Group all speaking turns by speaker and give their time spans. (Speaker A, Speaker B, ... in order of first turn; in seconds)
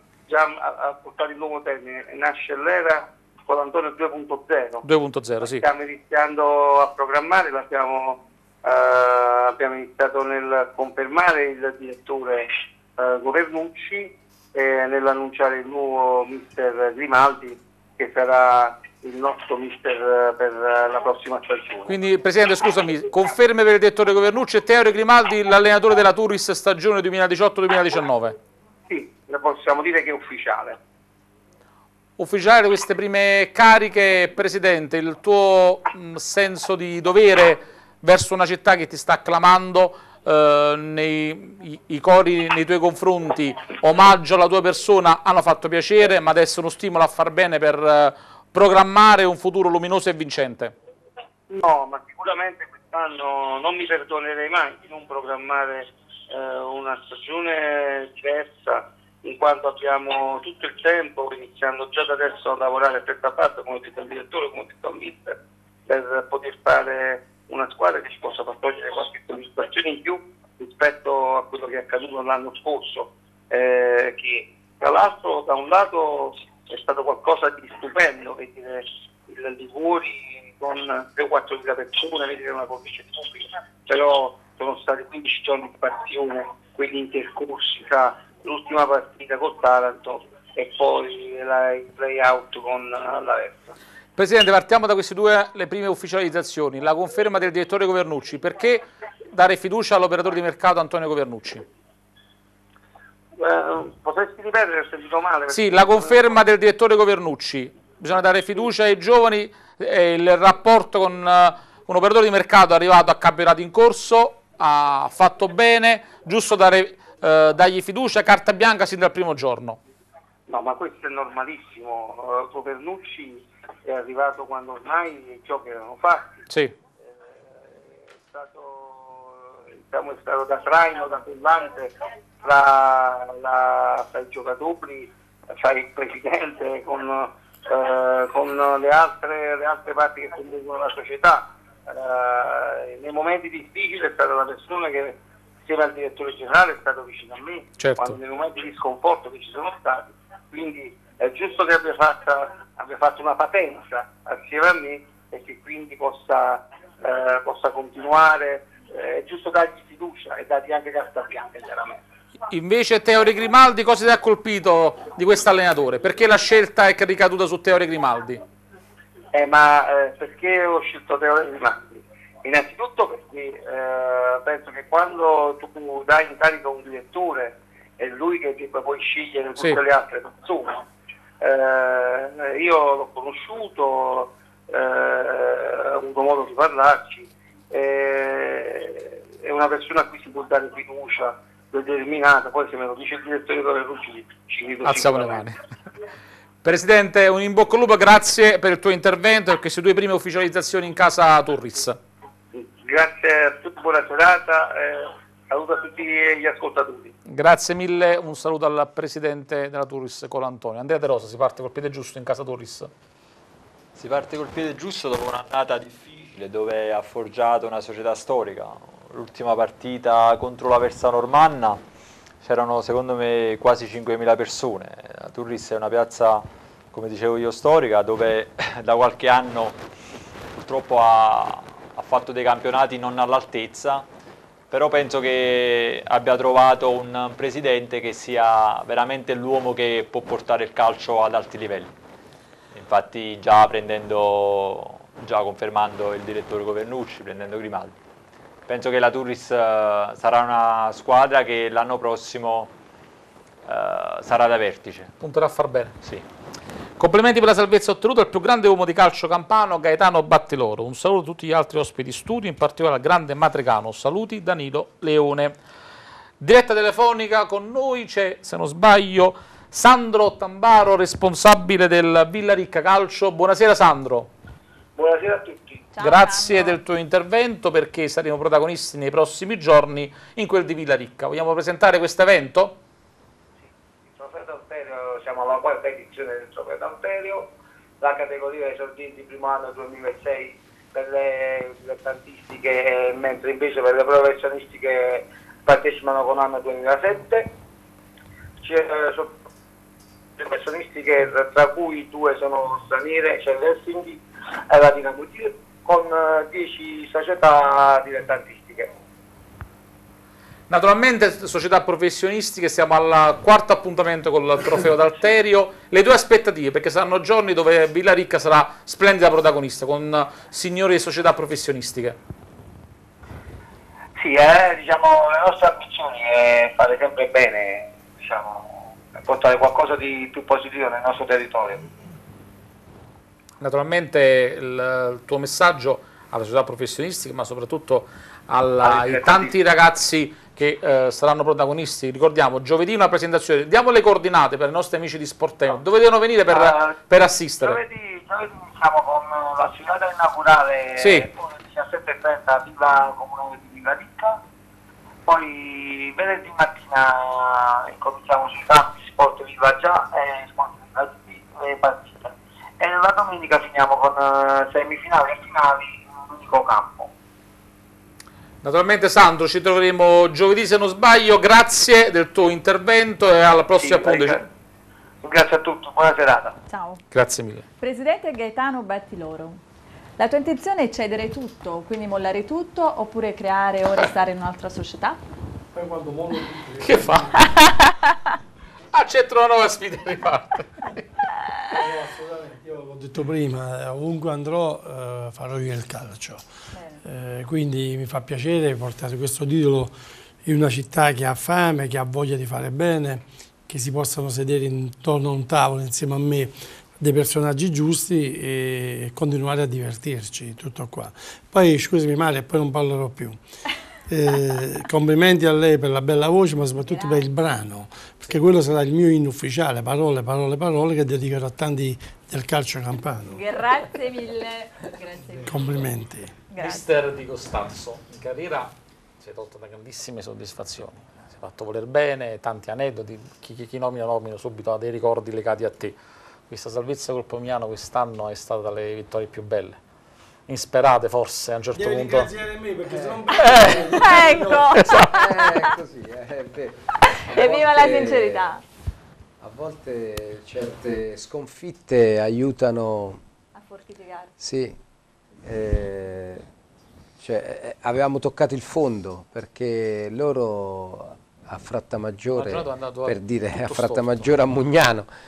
Speaker A: 0.3-4.8, 5.4-22.0, 28.9-30.8, 51.5-65.4, 65.9-93.7, 103.4-106.3, 120.5-126.3, 127.2-162.0, 169.3-180.8, 181.4-195.4, 202.6-207.1, 275.0-275.8, 284.1-287.5, 288.0-297.5, 298.6-299.3, 300.4-308.9, 324.2-331.9, 338.8-339.5, 346.5-346.9, 347.6-354.4, 355.3-367.1, 373.8-374.4, 375.2-376.6
Speaker B: 4.8-5.7, 21.9-28.4, 32.2-50.7, 94.2-101.7, 105.5-119.8, 126.5-126.8, 147.8-148.2, 162.5-168.4, 194.8-195.6, 196.6-202.0, 207.3-212.9, 255.2-256.2, 257.0-265.6, 266.4-274.3, 276.0-282.8, 310.7-322.2, 333.6-347.8, 351.0-351.3, 368.6-374.4, 377.1-377.7, 386.8-387.3, 388.9-391.0, 426.6-436.0, 436.5-439.8, 440.5-442.3, 444.8-445.1, 462.4-464.3
Speaker C: 214.0-221.8, 222.4-229.8, 230.6-234.1, 234.7-241.9, 242.7-248.0, 248.7-252.7, 253.7-255.1
Speaker D: 275.9-276.8, 376.7-377.0, 377.8-379.6, 380.2-385.2, 387.4-388.2, 396.7-397.0, 416.8-417.3, 423.3-425.9, 426.5-426.9, 443.5-445.7, 447.1-448.6, 453.6-454.3
Speaker E: 385.7-387.4, 391.7-396.4, 397.1-399.9, 400.4-413.4, 414.1-423.5, 425.4-426.4, 441.8-444.8
Speaker F: 442.9-443.2, 445.0-448.5, 449.4-453.2, 454.4-454.8, 455.4-456.4, 457.2-465.1